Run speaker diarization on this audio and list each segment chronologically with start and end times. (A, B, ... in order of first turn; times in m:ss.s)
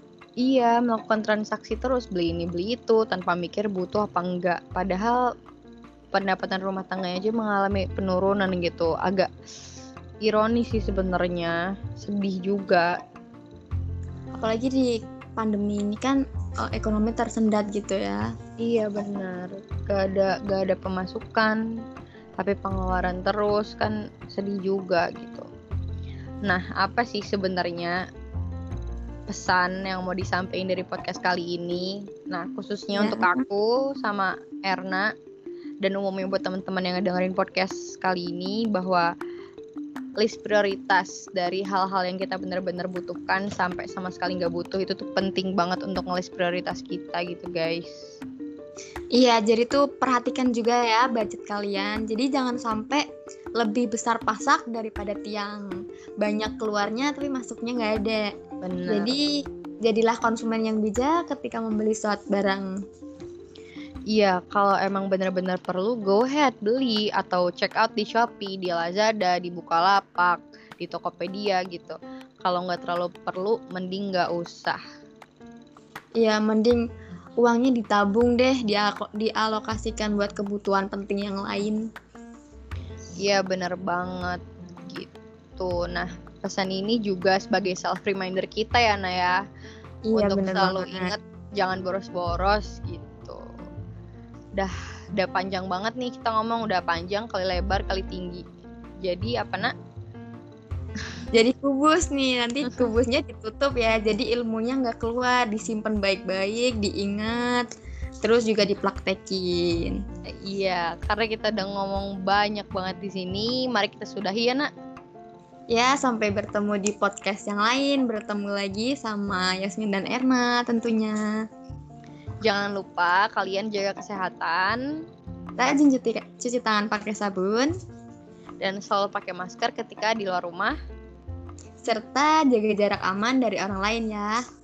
0:00.4-0:05.3 A
0:06.1-0:09.3 A
0:10.2-0:13.0 A
0:14.4-0:18.3 B
0:18.6-0:21.6 A
0:22.4-0:25.5 A
0:26.4-0:28.0 A
0:29.3-0:35.1 A
0:33.0-0:33.4 B
0:35.8-0:39.1 A
0:40.2-0:48.0 A
0:49.2-0:53.1 B
0:53.6-0:55.7 B
0:56.2-0:58.3 B
0:58.6-0:59.1 A
0:58.9-0:59.3 B
0:59.8-1:02.7 B
1:04.1-1:14.8 A
1:16.2-1:16.8 B
1:17.4-1:21.9 B
1:23.2-1:29.4 A
1:30.1-1:31.1 B
1:30.1-1:33.5 A
1:34.6-1:38.4 A
1:39.0-1:39.7 A
1:41.3-1:47.7 B
1:48.2-1:50.0 B
1:50.4-1:54.7 A
1:55.7-2:01.3 B
2:02.4-2:04.8 A
2:05.6-2:07.7 B
2:08.6-2:10.8 A
2:11.8-2:14.4 B